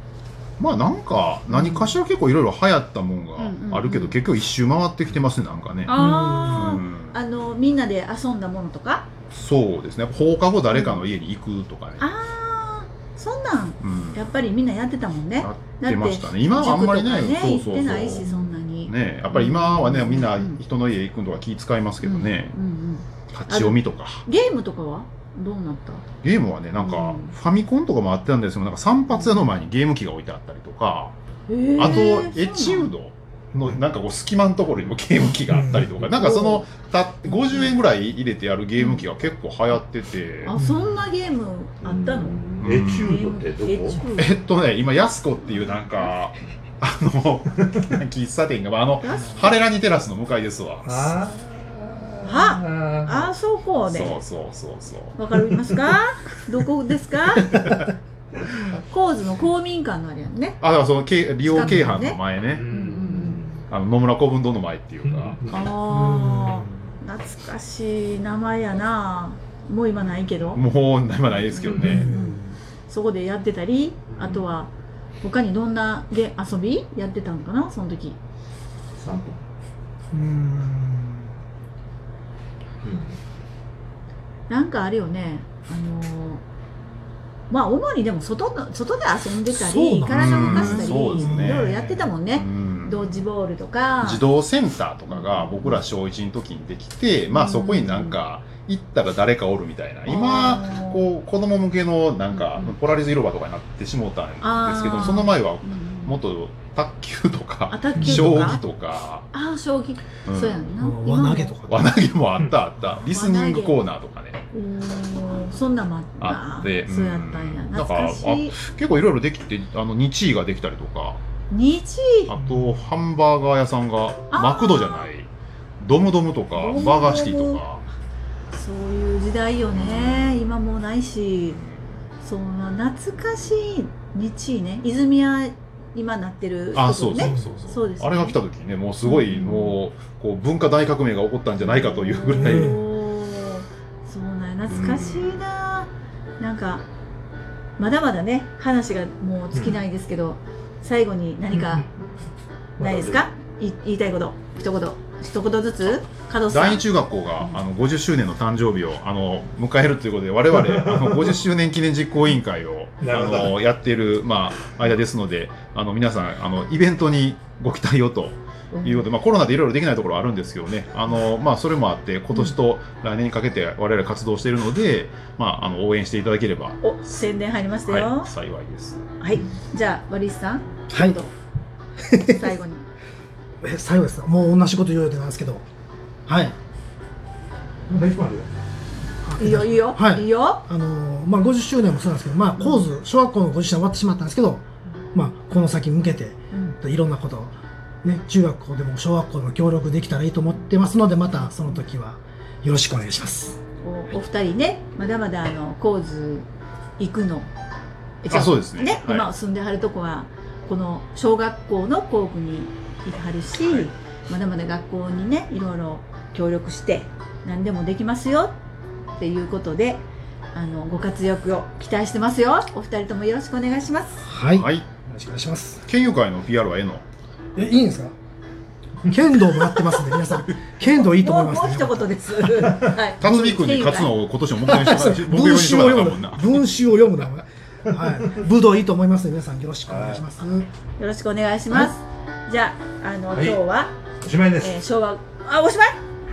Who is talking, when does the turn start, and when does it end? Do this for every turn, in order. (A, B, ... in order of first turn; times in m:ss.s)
0:00.6-0:05.9 A
0:01.5-0:02.0 B
0:03.4-0:04.2 B
0:05.8-0:09.1 B
0:05.9-0:06.8 C
0:06.5-0:07.2 A
0:09.3-0:12.0 A
0:10.7-0:11.0 B
0:12.0-0:20.6 B
0:13.8-0:14.2 A
0:15.4-0:22.6 A
0:22.0-0:26.0 B
0:23.3-0:24.2 A
0:26.2-0:31.1 A
0:26.8-0:27.3 B
0:31.5-0:32.9 B
0:31.8-0:40.5 A
0:35.5-0:35.9 C
0:38.8-0:39.0 B
0:40.4-0:44.3 B
0:40.5-0:40.9 C
0:41.8-0:44.0 D
0:42.6-0:43.2 A
0:44.2-0:51.2 A
0:49.0-0:49.5 B
0:50.8-0:53.3 D
0:52.2-0:54.2 B
0:53.8-0:55.2 A
0:55.2-0:57.8 B
0:58.7-1:00.6 B
1:00.6-1:02.6 A
1:01.4-1:02.2 B
1:02.5-1:03.6 D
1:02.7-1:03.4 B
1:03.7-1:05.4 A
1:05.0-1:05.5 D
1:05.5-1:10.6 B
1:05.9-1:06.7 C
1:10.5-1:12.1 A
1:11.6-1:14.7 B
1:11.6-1:12.0 D
1:11.8-1:12.5 C
1:14.1-1:14.4 D
1:15.2-1:18.2 B
1:19.0-1:19.4 D
1:20.1-1:21.3 C
1:22.8-1:23.2 D
1:24.5-1:26.4 B
1:27.5-1:34.3 B
1:29.5-1:32.1 C
1:30.1-1:31.7 A
1:32.3-1:33.2 A
1:34.0-1:49.3 A
1:35.1-1:35.8 B
1:37.3-1:38.2 B
1:40.0-1:41.1 B
1:42.3-1:42.7 B
1:44.4-1:46.2 B
1:47.7-1:48.6 B
1:48.0-1:48.4 C
1:49.3-1:51.5 B
1:50.3-1:50.6 A
1:50.8-1:52.0 C
1:51.7-1:54.4 A
1:53.1-1:53.8 B
1:54.5-1:58.6 B
1:56.2-2:01.2 A
2:01.5-2:02.3 B
2:02.3-2:05.3 A
2:02.4-2:02.8 C
2:04.3-2:05.1 B
2:05.8-2:07.8 A
2:06.6-2:07.6 B
2:08.5-2:11.6 B
2:09.7-2:10.3 A
2:11.5-2:11.8 A
2:12.2-2:18.4 B
2:16.7-2:22.8 A
2:17.2-2:17.6 C
2:19.0-2:19.8 B
2:21.7-2:26.8 B
2:22.4-2:22.8 C
2:24.6-2:25.4 A
2:27.8-2:31.9 B
2:32.8-2:33.2 D
2:32.8-2:36.8 B
2:36.5-2:56.8 A
2:40.6-2:41.3 D
2:43.0-2:43.6 D
2:48.7-2:49.0 B
2:56.8-2:58.3 B
2:57.9-2:59.0 A
2:59.2-3:01.3 B
3:00.9-3:01.2 C
3:02.0-3:02.5 C
3:02.2-3:02.8 B
3:03.6-3:05.6 C
3:06.2-3:06.6 C
3:07.9-3:08.5 D
3:09.2-3:23.6 C
3:09.4-3:10.6 B
3:12.6-3:12.8 B
3:16.5-3:16.8 B
3:21.4-3:21.8 B
3:23.8-3:26.5 B
3:27.0-3:27.5 B
3:28.2-3:38.5 B
3:28.3-3:29.3 A
3:39.2-3:40.0 B
3:40.5-3:44.2 B
3:44.2-3:45.8 C
3:44.5-3:44.9 A
3:45.8-3:47.0 A
3:47.6-3:48.1 C
3:49.0-3:52.7 C
3:50.8-3:54.1 B
3:53.2-3:56.7 A
3:54.6-4:00.7 C
3:59.9-4:00.2 D
4:01.0-4:03.9 B
4:03.3-4:03.6 D
4:04.2-4:04.8 D
4:04.6-4:06.0 B